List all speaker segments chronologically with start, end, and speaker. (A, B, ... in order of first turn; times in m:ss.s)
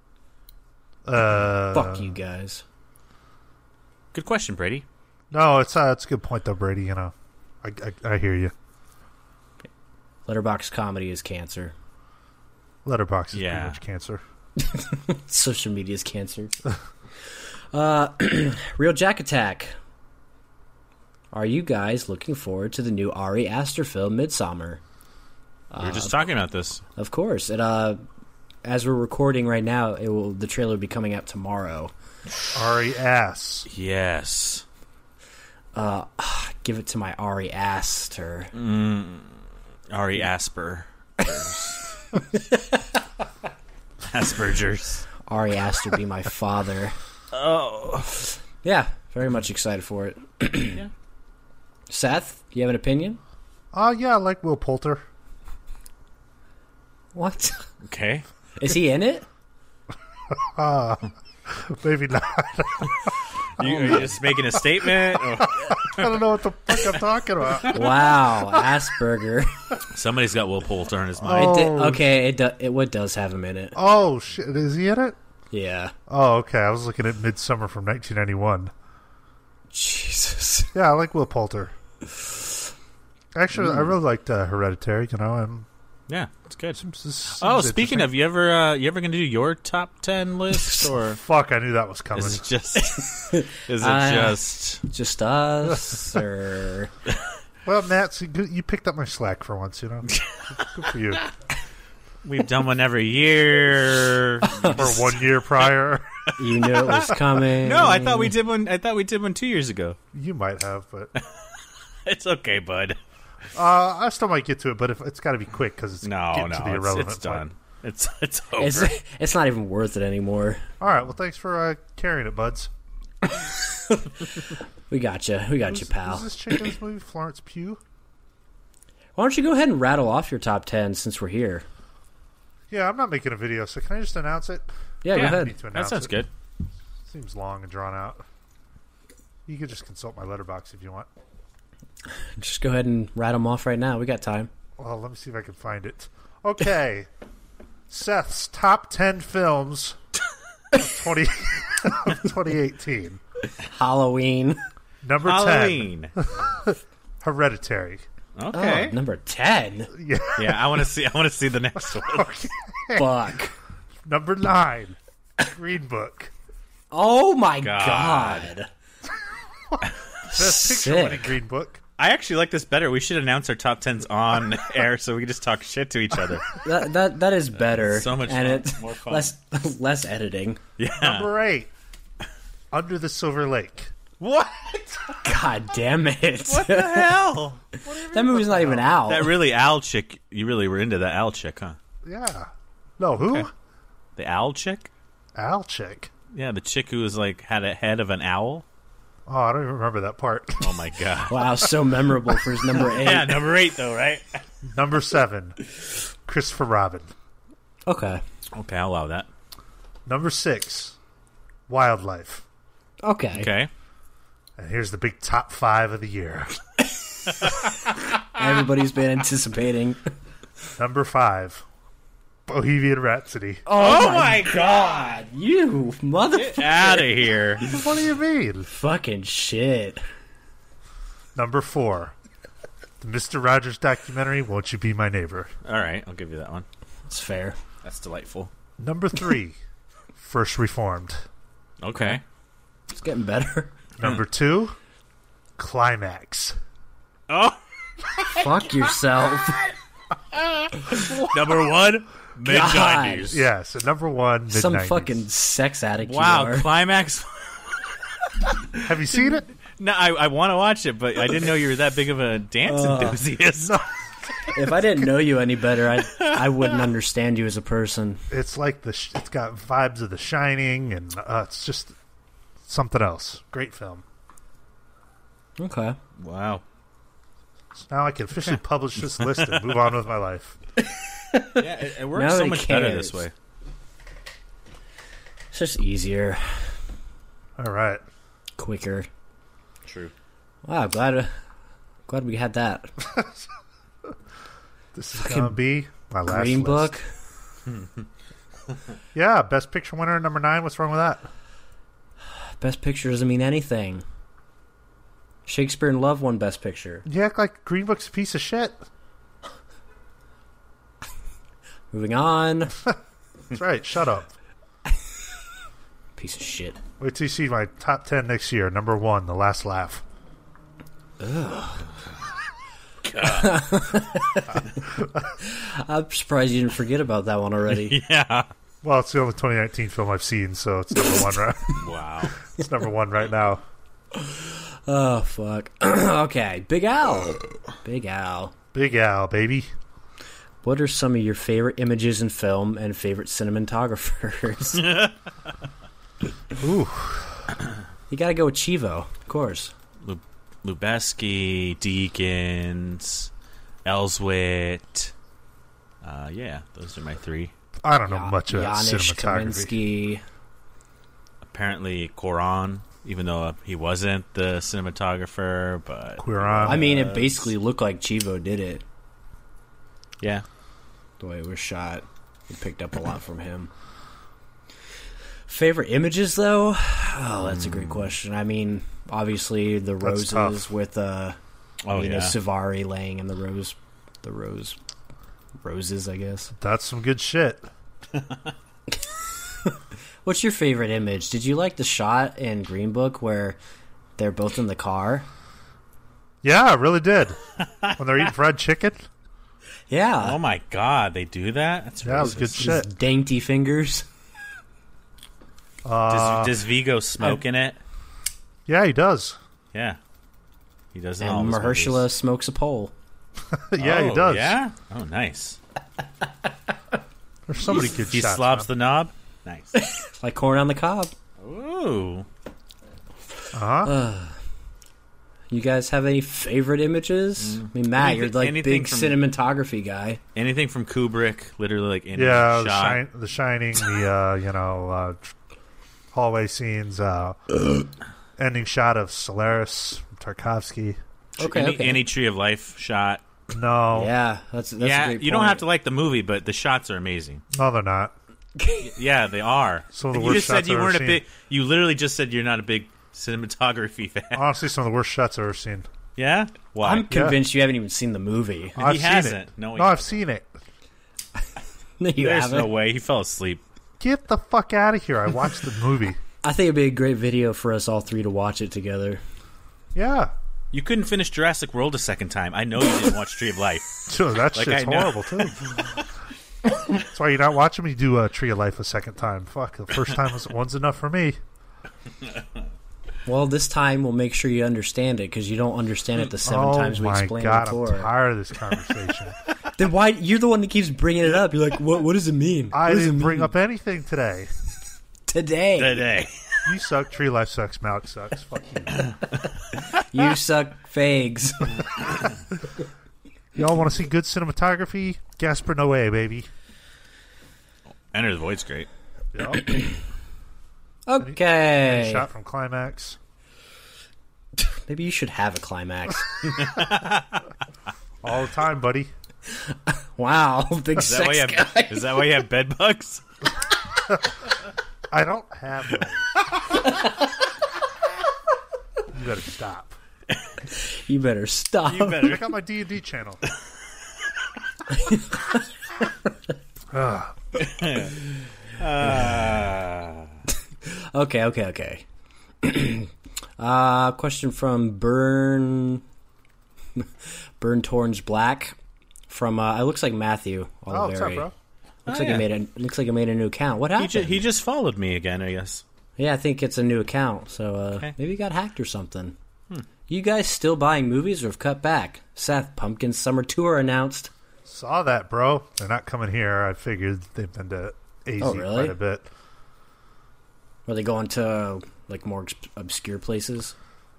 0:01.0-0:02.1 A
0:01.5-0:02.6 B
0:04.1-0:04.8 C
0:05.3-0:08.5 A
0:10.2-0:11.7 B
0:12.8-0:14.2 A
0:13.3-0:13.8 C
0:14.6-0:16.6 B
0:17.7-0:19.8 B
0:21.3-0:24.8 B
0:25.7-0:26.2 B
0:25.8-0:26.8 C
0:27.0-0:28.0 B
0:28.6-0:31.9 B
0:32.5-0:33.7 A
0:33.7-0:34.6 C
0:35.7-0:38.5 B
0:38.5-0:39.4 C
0:39.9-0:41.8 C
0:42.1-0:42.8 B
0:44.0-0:45.1 C
0:45.2-0:47.0 B
0:47.3-0:48.2 C
0:48.6-0:50.8 B
0:51.9-0:53.2 B
0:53.7-0:55.0 A
0:57.1-0:57.7 B
0:57.8-0:58.2 C
0:58.6-0:59.3 B
1:00.3-1:08.1 A
1:03.6-1:06.2 C
1:07.7-1:09.8 B
1:09.9-1:11.6 C
1:11.2-1:12.0 A
1:11.3-1:13.8 B
1:13.8-1:15.2 A
1:15.5-1:15.9 B
1:16.1-1:18.7 A
1:19.7-1:20.7 B
1:20.7-1:21.7 A
1:23.3-1:25.7 A
1:23.6-1:23.9 B
1:26.1-1:26.8 C
1:26.8-1:28.1 A
1:27.4-1:31.2 C
1:31.1-1:32.4 A
1:32.1-1:34.8 C
1:32.8-1:36.9 B
1:37.6-1:41.2 A
1:40.1-1:40.7 C
1:42.2-1:45.0 C
1:44.4-1:44.8 B
1:44.6-1:46.2 A
1:46.4-1:48.3 B
1:46.5-1:50.0 C
1:50.1-1:51.1 A
1:51.1-1:51.4 C
1:52.0-1:53.0 C
1:53.5-1:57.4 A
1:56.0-1:58.9 C
1:58.6-2:00.6 B
2:00.8-2:02.7 A
2:03.4-2:06.4 B
2:05.6-2:07.8 A
2:09.2-2:11.6 B
2:12.7-2:16.2 A
2:15.0-2:15.6 B
2:15.1-2:16.3 C
2:17.0-2:18.2 A
2:19.5-2:21.1 A
2:22.4-2:24.5 B
2:24.8-2:27.1 A
2:27.9-2:30.0 A
2:30.7-2:33.2 A
2:33.6-2:34.6 B
2:35.0-2:38.0 A
2:35.2-2:36.1 C
2:38.4-2:39.0 C
2:38.5-2:39.9 B
2:39.9-2:40.7 A
2:40.4-2:42.4 C
2:42.0-2:43.1 A
2:42.9-2:43.5 B
2:44.0-2:46.3 A
2:46.9-2:48.7 B
2:47.6-2:48.5 C
2:49.7-2:51.8 A
2:50.3-2:51.4 B
2:52.0-2:56.6 C
2:56.6-3:00.6 B
2:57.6-2:59.3 C
3:00.8-3:01.3 C
3:01.0-3:01.7 A
3:02.7-3:04.0 A
3:04.2-3:05.2 C
3:05.2-3:07.3 B
3:06.5-3:11.8 C
3:08.0-3:09.4 B
3:12.0-3:13.5 A
3:13.2-3:13.4 C
3:14.2-3:14.9 C
3:15.4-3:16.1 A
3:16.3-3:18.6 C
3:19.2-3:20.8 A
3:20.6-3:21.7 C
3:21.3-3:23.5 B
3:22.8-3:24.4 C
3:24.6-3:25.6 A
3:26.2-3:27.1 A
3:27.9-3:28.2 B
3:28.5-3:29.3 C
3:30.0-3:31.0 A
3:31.7-3:32.4 A
3:33.0-3:33.5 B
3:33.3-3:33.7 C
3:34.6-3:36.6 A
3:38.3-3:40.0 B
3:40.8-3:41.6 A
3:42.5-3:43.6 A
3:43.6-3:47.2 B
3:43.7-3:45.0 C
3:46.3-3:47.6 C
3:47.6-3:48.7 A
3:48.7-3:50.0 B
3:51.4-3:52.1 A
3:53.0-3:55.5 A
3:55.6-3:56.6 C
3:57.1-3:57.6 B
3:57.8-3:58.5 C
3:58.8-3:59.6 A
4:00.2-4:01.2 A
4:01.8-4:02.2 C
4:02.9-4:03.7 B
4:04.0-4:04.8 A
4:05.6-4:06.6 A
4:07.3-4:08.9 C
4:08.3-4:09.6 B
4:10.4-4:13.4 C
4:12.4-4:13.4 B
4:13.3-4:15.2 A
4:14.5-4:16.7 B
4:16.0-4:17.6 C
4:18.5-4:18.8 C
4:18.8-4:19.5 A
4:19.8-4:23.8 C
4:22.6-4:23.2 B
4:23.6-4:23.9 A
4:24.4-4:28.2 B
4:26.1-4:26.4 C
4:28.3-4:31.9 A
4:32.6-4:34.0 A
4:35.6-4:36.0 B
4:36.2-4:36.6 C
4:37.8-4:40.5 A
4:39.2-4:39.8 C
4:40.9-4:43.2 B
4:41.6-4:43.3 C
4:45.5-4:46.7 B
4:47.6-4:48.0 A
4:48.6-4:49.1 B
4:49.9-4:50.1 C
4:50.6-4:51.3 B
4:52.1-4:52.9 B
4:54.9-4:56.9 A
4:55.1-4:55.6 B
4:56.3-4:57.1 B
4:59.1-5:01.3 A
5:02.3-5:04.0 B
5:05.4-5:07.0 B
5:07.0-5:08.8 A
5:11.9-5:12.7 B
5:13.5-5:14.3 A
5:16.2-5:16.8 B
5:17.0-5:20.0 A
5:21.2-5:21.8 B
5:23.0-5:23.6 C
5:23.2-5:24.8 B
5:25.0-5:25.3 A
5:25.4-5:28.0 B
5:27.7-5:28.5 C
5:28.8-5:31.9 A
5:31.8-5:32.3 C
5:32.4-5:33.6 A
5:34.1-5:38.5 B
5:38.7-5:39.7 A
5:40.6-5:44.9 B
5:44.8-5:45.1 C
5:46.6-5:47.5 A
5:48.1-5:49.7 B
5:50.0-5:53.3 C
5:53.8-5:55.1 C
5:56.0-5:57.5 C
5:57.8-5:59.8 A
5:58.1-6:00.2 B
6:01.4-6:07.5 C
6:06.2-6:07.0 A
6:06.6-6:08.8 B
6:11.2-6:13.7 B
6:15.5-6:21.4 B
6:17.4-6:18.1 C
6:20.0-6:20.7 A
6:21.8-6:22.3 C
6:21.9-6:24.8 B
6:25.6-6:26.5 B
6:26.6-6:27.7 A
6:29.6-6:33.6 B
6:34.2-6:35.2 B
6:36.4-6:37.4 A
6:37.6-6:38.0 C
6:38.0-6:39.0 A
6:39.9-6:40.4 B
6:40.2-6:42.7 C
6:42.0-6:42.9 A
6:42.2-6:44.0 B
6:45.8-6:46.6 A
6:46.1-6:47.8 C
6:48.7-6:49.4 A
6:49.7-6:50.0 C
6:50.9-6:52.1 C
6:51.2-6:52.9 B
6:53.5-6:54.6 A
6:53.8-6:55.6 C
6:57.5-6:58.7 A
6:57.7-6:59.8 C
6:59.8-7:01.1 B
7:01.4-7:02.2 C
7:03.5-7:03.9 A
7:03.8-7:04.4 B
7:05.5-7:10.2 B
7:07.4-7:09.2 C
7:10.4-7:13.0 C
7:12.1-7:15.3 A
7:16.1-7:17.8 A
7:18.4-7:21.0 A
7:21.4-7:22.0 B
7:21.4-7:23.2 C
7:23.5-7:24.1 A
7:23.9-7:25.6 B
7:24.8-7:27.4 C
7:27.5-7:28.1 A
7:28.6-7:28.9 B
7:28.8-7:34.5 C
7:29.9-7:31.2 A
7:34.3-7:35.9 A
7:36.2-7:37.1 C
7:36.8-7:38.8 B
7:37.1-7:37.4 A
7:38.8-7:40.2 C
7:38.8-7:40.5 A
7:42.0-7:42.7 B
7:42.2-7:43.6 C
7:44.0-7:46.2 A
7:46.4-7:49.2 B
7:50.0-7:50.3 A
7:50.7-7:56.0 C
7:54.1-7:56.0 A
7:56.9-8:01.4 A
8:03.2-8:08.1 B
8:06.4-8:09.4 A
8:09.8-8:13.5 B
8:12.7-8:14.5 A
8:15.3-8:16.1 B
8:15.8-8:16.7 C
8:16.7-8:19.1 A
8:20.1-8:21.8 B
8:23.6-8:26.5 A
8:28.1-8:28.9 C
8:29.3-8:29.7 A
8:29.6-8:29.9 B
8:31.1-8:32.2 B
8:31.2-8:33.2 A
8:34.6-8:36.5 B
8:36.5-8:37.4 C
8:38.2-8:39.1 A
8:39.6-8:42.2 B
8:41.0-8:43.2 C
8:45.1-8:46.2 A
8:46.7-8:47.2 B
8:49.1-8:50.0 A
8:50.7-8:52.3 B
8:51.9-8:52.5 C
8:52.2-8:53.4 A
8:54.9-8:55.6 B
8:56.9-8:57.4 A
8:57.6-9:00.3 C
9:00.8-9:02.0 B
9:02.6-9:06.0 B
9:07.0-9:08.8 B
9:09.3-9:11.5 B
9:10.9-9:11.5 A
9:12.0-9:12.5 C
9:12.1-9:14.4 B
9:14.0-9:15.8 C
9:16.2-9:19.3 B
9:20.1-9:24.3 B
9:24.7-9:29.3 A
9:28.4-9:29.0 B
9:30.8-9:33.7 B